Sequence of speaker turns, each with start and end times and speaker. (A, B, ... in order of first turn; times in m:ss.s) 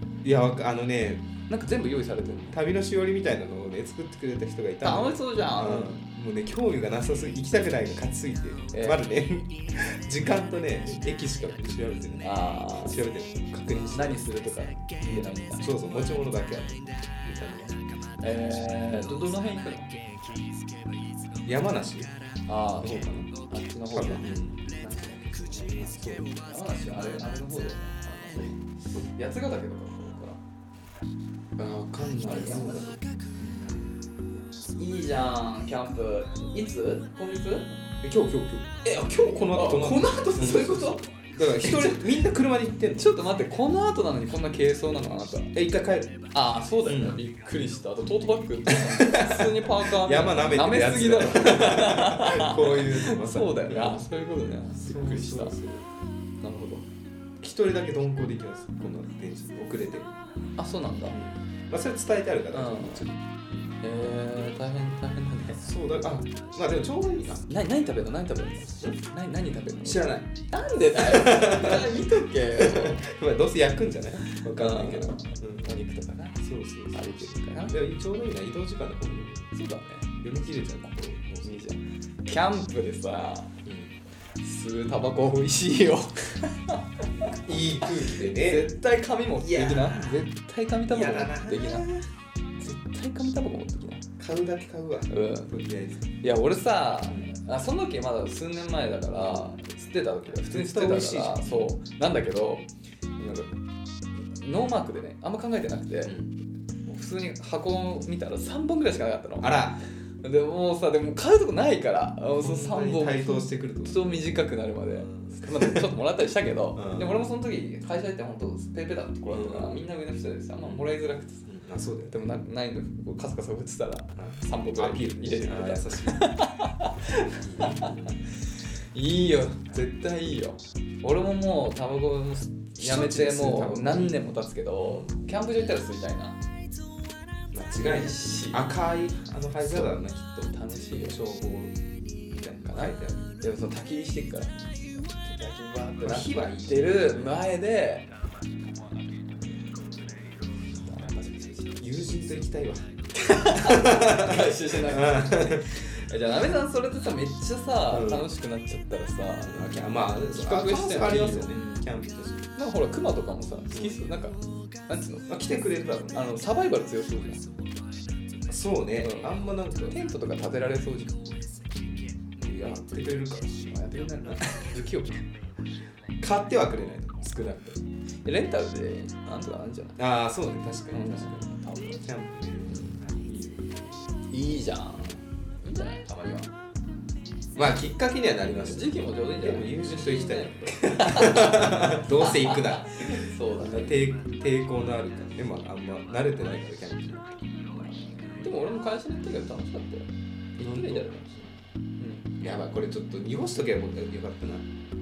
0:00.2-0:01.3 A
0:01.5-0:02.6 B
0:02.5-0:14.3 A
0:04.8-0:06.0 B
0:08.7-0:09.0 B
0:12.2-0:13.0 B
0:13.9-0:15.7 B
0:15.0-0:17.8 A
0:18.2-0:20.0 B
0:21.4-0:22.2 A
0:22.4-0:30.4 B
0:22.8-0:23.3 A
0:23.9-0:24.6 A
0:25.8-0:26.4 A
0:31.6-0:34.0 A
0:32.2-0:32.9 B
0:34.8-0:37.7 B
0:38.0-0:43.1 A
0:38.8-0:42.0 B
0:43.0-0:45.5 B
0:45.5-0:46.2 A
0:46.3-0:55.6 B
0:46.8-0:47.2 A
0:48.7-0:54.1 A
0:54.7-0:55.8 A
0:56.4-0:56.9 B
0:57.4-1:00.2 A
1:00.6-1:01.2 B
1:01.1-1:03.7 A
1:02.5-1:03.0 B
1:03.8-1:05.7 B
1:05.6-1:07.5 A
1:07.5-1:13.0 B
1:09.8-1:10.3 A
1:10.9-1:15.8 A
1:14.2-1:16.4 B
1:16.4-1:19.5 A
1:16.9-1:17.8 B
1:19.5-1:20.1 B
1:20.2-1:21.6 A
1:21.4-1:23.6 B
1:23.6-1:24.0 A
1:24.4-1:27.3 B
1:27.3-1:28.7 A
1:28.0-1:32.0 B
1:29.4-1:30.3 A
1:30.9-1:32.0 A
1:32.6-1:34.0 B
1:34.2-1:36.1 A
1:35.1-1:35.5 B
1:36.2-1:42.7 B
1:39.1-1:39.6 A
1:40.5-1:41.7 A
1:43.2-1:43.5 B
1:44.2-1:46.2 B
1:46.0-1:46.4 A
1:46.8-2:01.4 B
1:49.4-1:49.8 A
1:52.4-1:55.9 A
1:56.7-1:57.2 A
1:59.3-1:59.8 A
2:00.6-2:00.9 A
2:01.4-2:02.3 A
2:02.1-2:16.4 B
2:04.2-2:06.3 A
2:07.3-2:08.3 A
2:12.8-2:15.1 A
2:17.5-2:21.8 A
2:17.7-2:18.8 B
2:20.5-2:21.2 B
2:22.4-2:23.3 A
2:22.4-2:28.1 B
2:26.0-2:27.4 A
2:30.7-2:31.8 B
2:31.8-2:32.9 A
2:33.1-2:39.6 B
2:33.4-2:35.8 A
2:37.9-2:38.3 A
2:39.4-2:42.4 A
2:40.2-2:41.9 B
2:42.6-2:45.3 B
2:43.7-2:44.1 A
2:45.3-2:46.3 A
2:46.1-2:47.4 B
2:48.5-2:50.0 A
2:49.0-2:49.4 B
2:49.9-2:51.2 B
2:52.4-2:53.7 A
2:53.7-2:55.3 B
2:56.2-2:57.8 A
2:58.2-3:00.0 B
3:00.0-3:01.5 A
3:00.9-3:02.1 B
3:02.0-3:04.1 A
3:02.6-3:03.0 B
3:04.3-3:06.5 B
3:07.5-3:17.4 A
3:08.5-3:14.0 B
3:17.6-3:21.4 B
3:20.6-3:21.1 A
3:22.0-3:22.4 B
3:22.4-3:24.7 A